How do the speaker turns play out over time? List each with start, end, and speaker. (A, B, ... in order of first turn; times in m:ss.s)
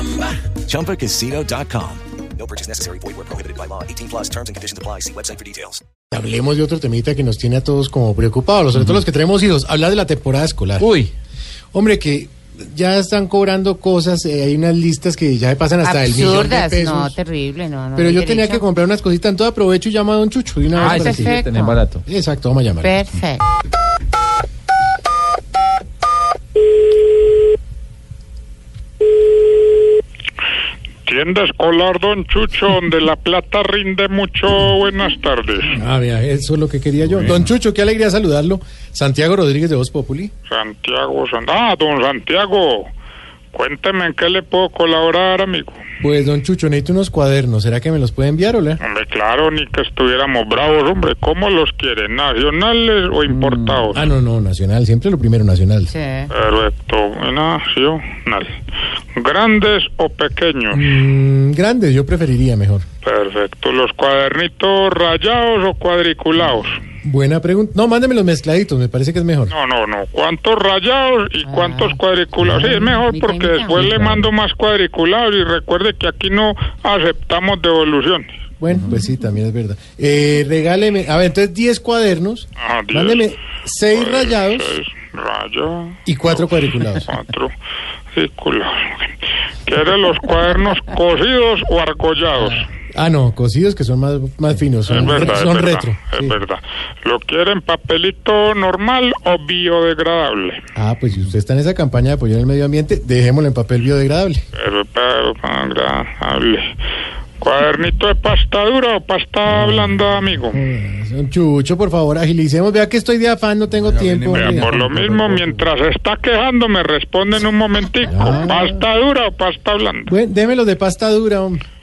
0:00.3-0:05.8 A
0:06.1-0:10.9 B
0:10.8-0:11.1 C
0:11.7-0:17.2 B
0:15.8-0:18.6 D
0:17.9-0:21.4 B
0:20.8-0:22.0 C
0:20.8-0:21.8 D
0:22.0-0:23.0 B
0:22.8-0:23.4 D
0:31.0-0:35.8 E
0:35.7-0:40.3 B
0:40.5-0:42.9 E
0:43.5-0:45.8 E
0:46.0-0:48.8 B
0:48.8-0:54.0 E
0:53.3-0:53.9 C
0:53.9-0:55.9 B
0:55.9-0:56.3 D
0:56.3-0:58.6 E
0:59.1-1:00.8 E
1:00.7-1:02.8 B
1:03.0-1:06.8 E
1:07.0-1:09.5 B
1:09.5-1:18.3 E
1:11.4-1:12.0 D
1:12.4-1:13.0 B
1:12.8-1:14.0 D
1:13.7-1:14.3 B
1:18.6-1:24.8 B
1:22.6-1:23.3 E
1:23.9-1:26.5 E
1:26.0-1:27.1 B
1:27.0-1:27.5 E
1:28.1-1:29.1 E
1:29.6-1:32.6 E
1:32.9-1:36.4 B
1:34.9-1:40.6 E
1:40.8-1:44.4 B
1:44.5-1:46.7 E
1:47.4-1:50.6 E
1:49.4-1:55.7 B
1:53.8-1:55.0 C
1:54.3-2:00.1 E
1:58.1-1:58.8 B
2:00.1-2:01.6 B